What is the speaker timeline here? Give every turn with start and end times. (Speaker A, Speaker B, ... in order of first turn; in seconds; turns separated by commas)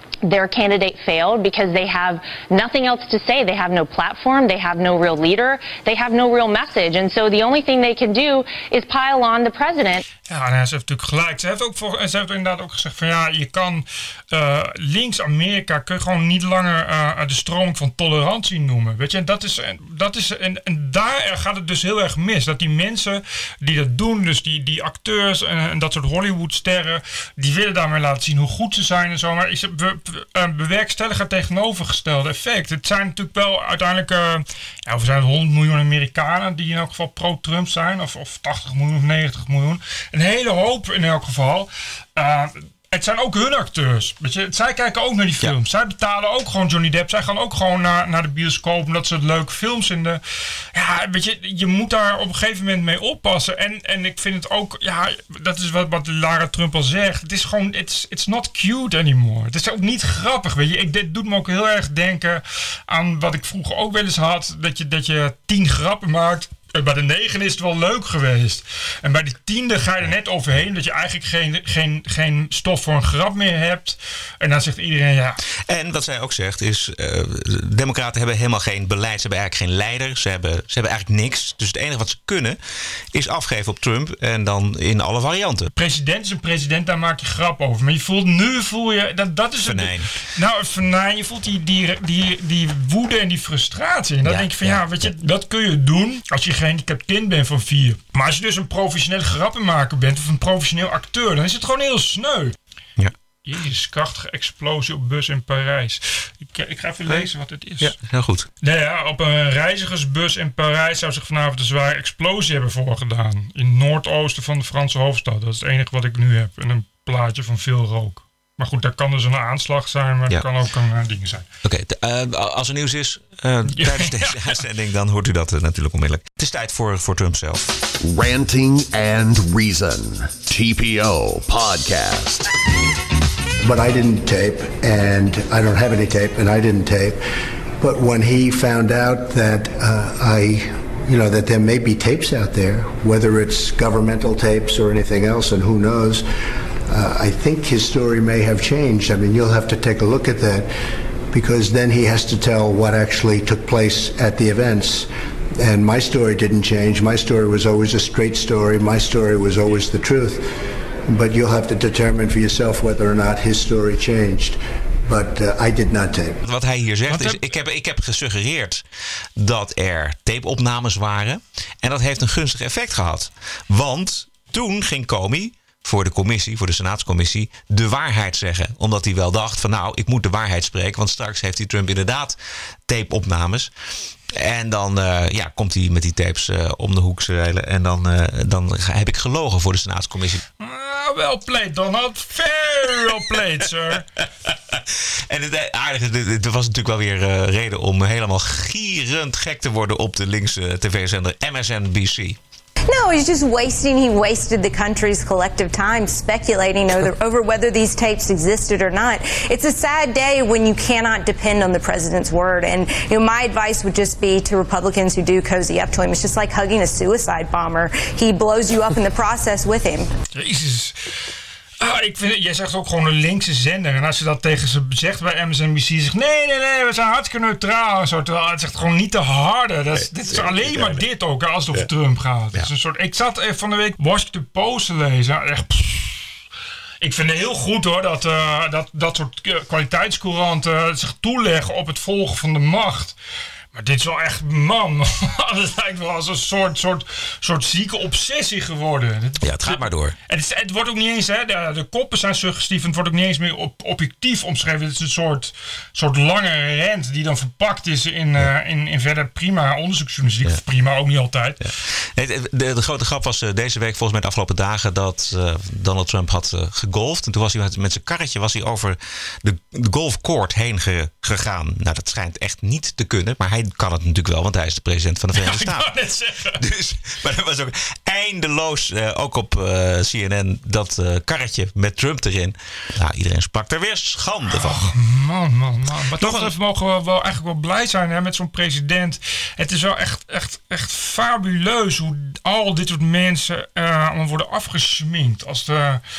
Speaker A: 0.2-10.0, Speaker B: 10.3-50.2, Speaker B: 50.7-75.4, Speaker C: 75.6-82.6, Speaker C: 83.1-85.7, Speaker B: 85.8-102.5, Speaker C: 89.6-90.1, Speaker C: 94.2-95.1, Speaker B: 103.5-108.0, Speaker C: 107.8-108.5, Speaker B: 108.6-121.5, Speaker C: 121.6-127.8, Speaker B: 123.7-124.6, Speaker D: 128.0-132.5, Speaker E: 133.6-137.2, Speaker E: 137.8-146.3, Speaker E: 146.9-150.7, Speaker E: 151.3-160.5, Speaker E: 161.1-166.4, Speaker C: 166.4-168.8, Speaker B: 167.1-167.4, Speaker C: 169.4-183.7, Speaker C: 184.3-190.4, Speaker B: 190.6-194.1, Speaker C: 194.7-202.4, Speaker F: 202.9-220.1, Speaker B: 220.3-220.9, Speaker B: 221.8-236.2, Speaker C: 229.9-231.1, Speaker B: 237.0-243.2, Speaker B: 243.7-261.6, Speaker C: 249.4-250.2, Speaker C: 261.6-275.9, Speaker B: 275.4-276.6, Speaker C: 276.6-284.9, Speaker B: 284.5-296.0, Speaker C: 286.2-286.5